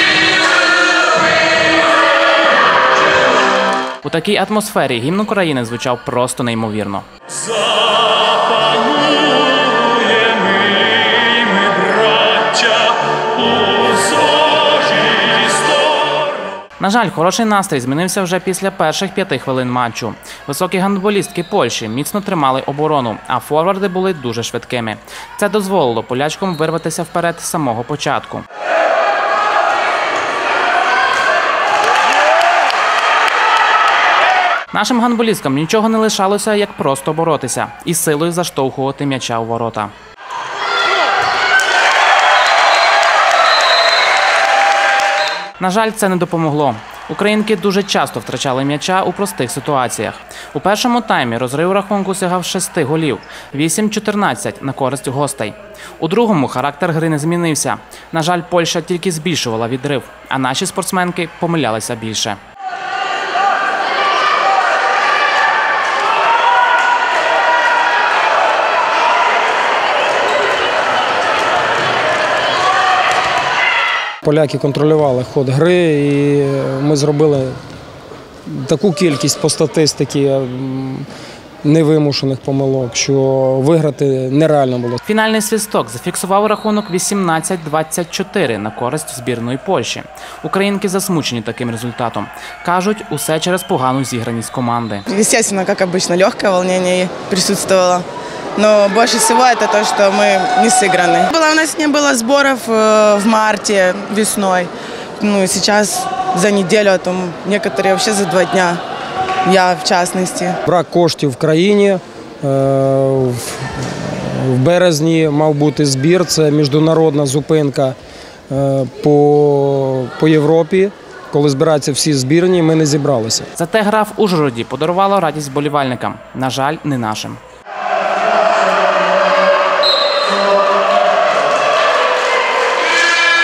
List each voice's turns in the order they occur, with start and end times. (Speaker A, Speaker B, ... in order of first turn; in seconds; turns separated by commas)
Speaker A: 4.0-7.1, Speaker A: 12.2-12.8, Speaker A: 16.8-28.4, Speaker A: 34.7-39.9, Speaker A: 45.6-62.4, Speaker B: 74.2-77.6, Speaker B: 78.5-81.1, Speaker B: 81.6-85.0, Speaker A: 85.0-95.0, Speaker C: 95.1-98.0, Speaker C: 98.6-108.8, Speaker C: 109.4-110.6, Speaker B: 110.7-118.0, Speaker B: 118.5-123.5, Speaker A: 123.6-127.4